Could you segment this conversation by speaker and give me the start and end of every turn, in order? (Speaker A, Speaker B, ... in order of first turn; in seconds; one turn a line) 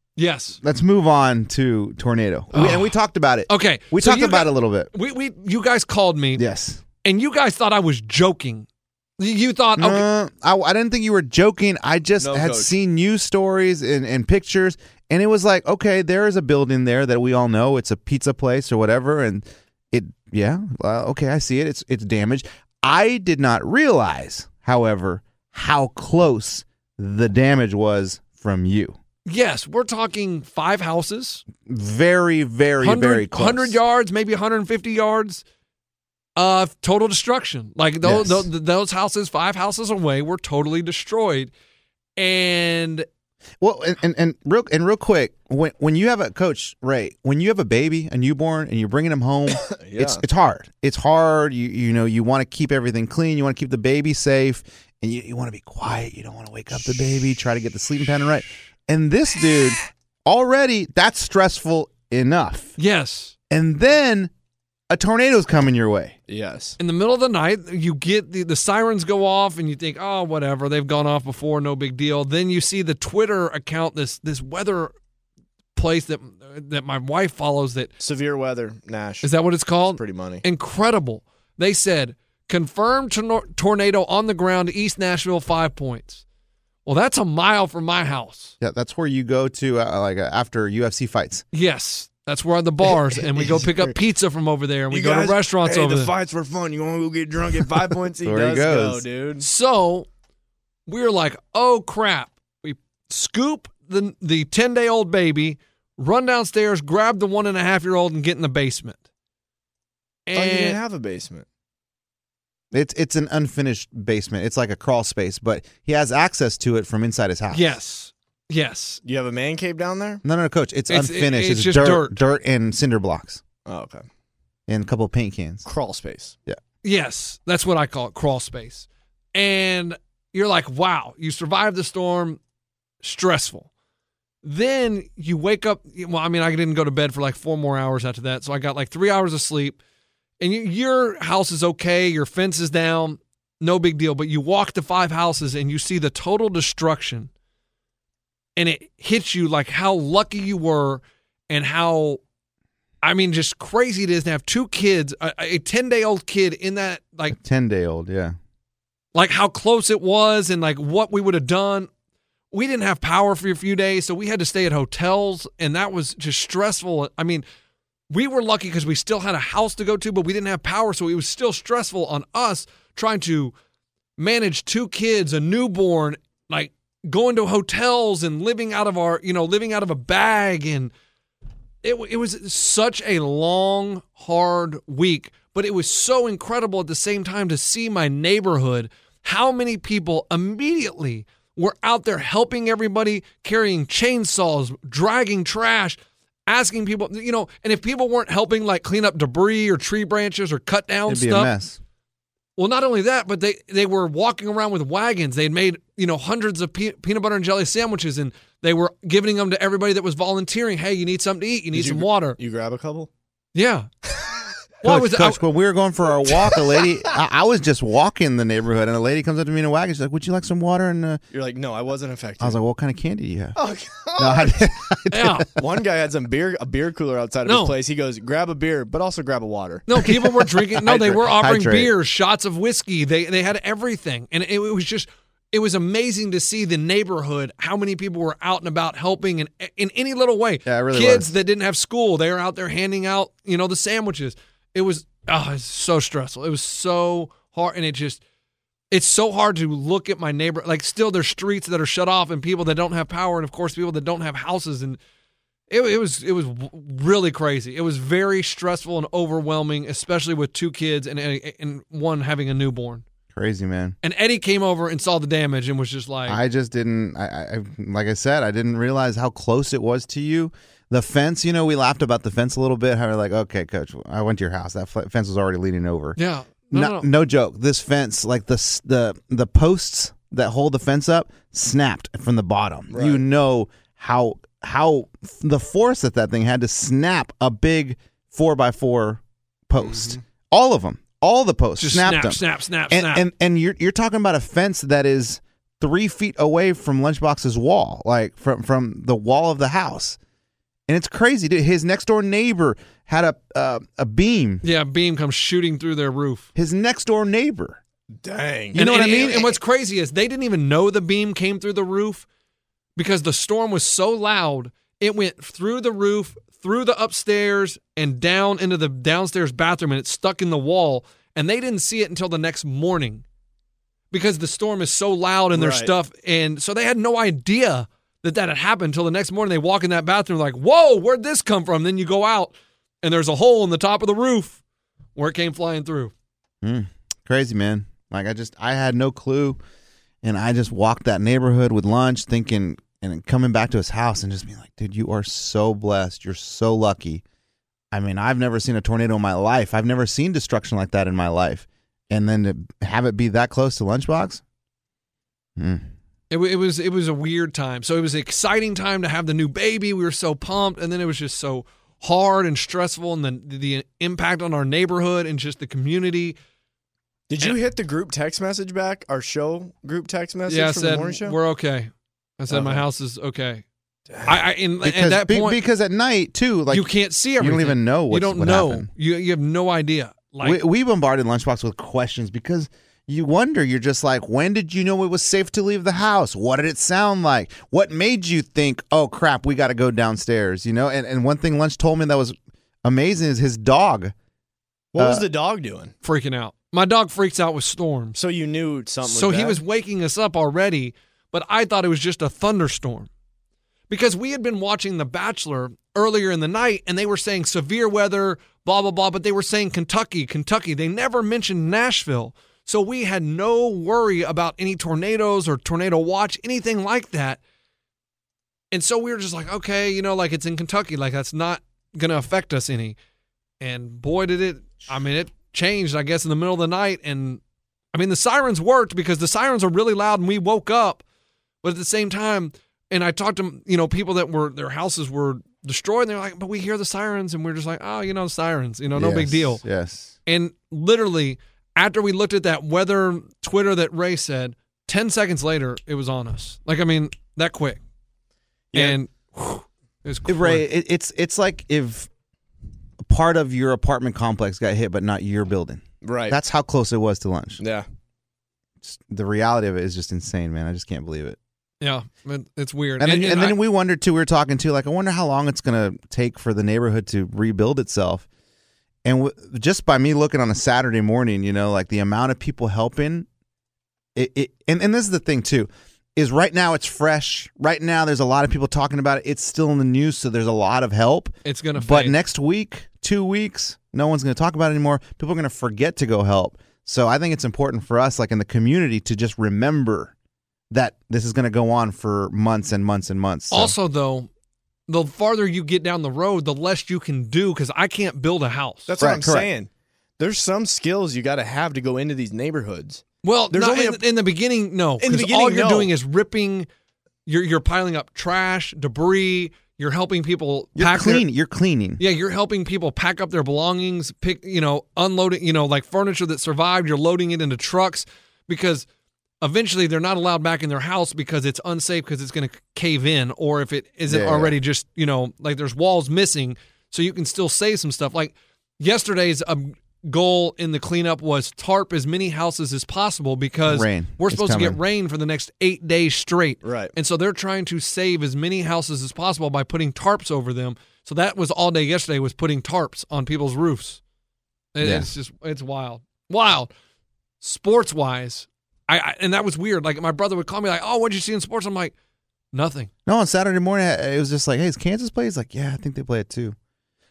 Speaker A: 0.2-0.6
Speaker B: 0.6-4.9
Speaker A: 2.5-2.9
Speaker A: 3.5-6.4
Speaker B: 6.3-6.8
Speaker A: 7.0-8.7
Speaker A: 9.2-10.1
Speaker B: 9.8-29.0
Speaker C: 12.2-12.7
Speaker A: 29.3-31.4
Speaker B: 31.6-33.8
Speaker A: 32.8-35.4
Speaker A: 36.4-41.5
Speaker B: 38.0-38.5
Speaker A: 42.2-43.0
Speaker B: 43.6-62.8
Speaker C: 49.6-50.2
Speaker A: 62.8-63.3
Speaker B: 63.5-64.3
Speaker B: 64.9-66.2
Speaker C: 66.3-66.8
Speaker A: 66.8-74.9
Speaker A: 75.8-77.9
Speaker C: 78.0-79.3
Speaker A: 79.2-86.2
Speaker C: 79.9-80.4
Speaker A: 86.8-88.5
Speaker B: 88.6-91.4
Speaker A: 91.5-96.1
Speaker B: 93.3-93.9
Speaker C: 94.9-99.4
Speaker B: 98.2-99.0
Speaker A: 99.4-100.1
Speaker A: 100.9-109.0
Speaker A: 110.3-110.8
Speaker C: 110.3-111.5
Speaker B: 112.7-117.7
Speaker A: 117.5-119.0
Speaker C: 119.0-120.2
Speaker B: 120.2-123.4
Speaker A: 120.9-122.2
Speaker C: 123.7-124.0
Speaker B: 124.7-125.7
Speaker C: 125.6-126.4
Speaker A: 126.8-132.4
Speaker A: 133.0-133.7
Speaker A: 134.4-139.8
Speaker A: 140.4-147.3
Speaker A: 148.6-152.2
Speaker A: 153.0-157.3
Speaker B: 157.3-158.3
Speaker A: 159.1-161.9
Speaker A: 162.5-167.4
Speaker A: 168.1-173.5
Speaker A: 174.2-180.9
Speaker A: 181.8-201.5
Speaker B: 201.1-201.8
Speaker A: 202.6-212.4
Speaker C: 211.7-213.1
Speaker A: 213.5-213.9
Speaker A: 214.8-215.4
Speaker B: 214.8-221.2
Speaker C: 221.3-222.6
Speaker B: 222.4-223.6
Speaker C: 223.6-224.7
Speaker B: 224.2-225.5
Speaker A: 225.1-225.4
Speaker C: 225.6-229.9
Speaker A: 227.4-227.7
Speaker A: 229.9-248.2
Speaker B: 230.0-231.9
Speaker B: 240.6-241.3
Speaker A: 248.9-255.0
Speaker A: 255.7-263.0
Speaker B: 263.3-263.9
Speaker A: 264.0-266.4
Speaker B: 266.3-276.2
Speaker A: 276.2-277.1
Speaker B: 276.7-300.2
Speaker C: 282.9-283.2
Speaker C: 289.8-290.2
Speaker A: 291.8-293.2
Speaker B: 300.9-304.6
Speaker A: 304.6-306.5
Speaker B: 306.5-307.8
Speaker C: 308.2-309.3
Speaker B: 308.7-309.6
Speaker A: 308.8-312.2
Speaker A: 312.9-323.2
Speaker A: 324.1-334.6
Speaker C: 325.5-325.9
Speaker A: 335.1-336.1
Speaker B: 336.6-339.6
Speaker B: 340.2-347.2
Speaker B: 347.9-354.4
Speaker B: 355.6-355.9
Speaker A: 356.3-366.4
Speaker C: 367.3-371.4
Speaker A: 370.5-373.6
Speaker C: 372.5-372.8
Speaker A: 374.2-375.6
Speaker B: 374.8-378.9
Speaker A: 376.7-380.6
Speaker B: 380.4-394.1
Speaker C: 394.9-395.9
Speaker B: 395.0-395.2
Speaker A: 396.0-398.2
Speaker C: 398.1-399.6
Speaker A: 399.0-403.1
Speaker A: 403.9-417.4
Speaker A: 418.7-423.0
Speaker A: 423.6-427.4
Speaker A: 427.9-431.0
Speaker A: 431.6-439.6
Speaker B: 438.9-440.1
Speaker A: 440.2-447.8
Speaker C: 448.7-449.0
Speaker A: 448.7-450.6
Speaker B: 450.3-452.1
Speaker B: 453.0-457.6
Speaker C: 456.0-456.4
Speaker C: 457.6-457.9
Speaker B: 458.8-461.4
Speaker A: 461.8-463.6
Speaker B: 463.0-468.2
Speaker B: 469.0-473.3
Speaker B: 474.1-490.1
Speaker A: 481.4-482.2
Speaker B: 490.7-493.7
Speaker A: 493.5-494.3
Speaker A: 494.9-498.9
Speaker C: 498.9-504.0
Speaker B: 499.0-499.5
Speaker A: 503.2-506.7
Speaker C: 505.0-505.9
Speaker A: 507.2-511.2
Speaker B: 510.8-512.0
Speaker A: 512.0-518.9
Speaker A: 519.4-544.0
Speaker B: 524.1-524.5
Speaker B: 533.6-534.8
Speaker C: 536.6-536.9
Speaker A: 544.7-546.7
Speaker B: 544.8-545.1
Speaker A: 547.4-551.9
Speaker A: 552.5-552.9
Speaker B: 553.0-556.5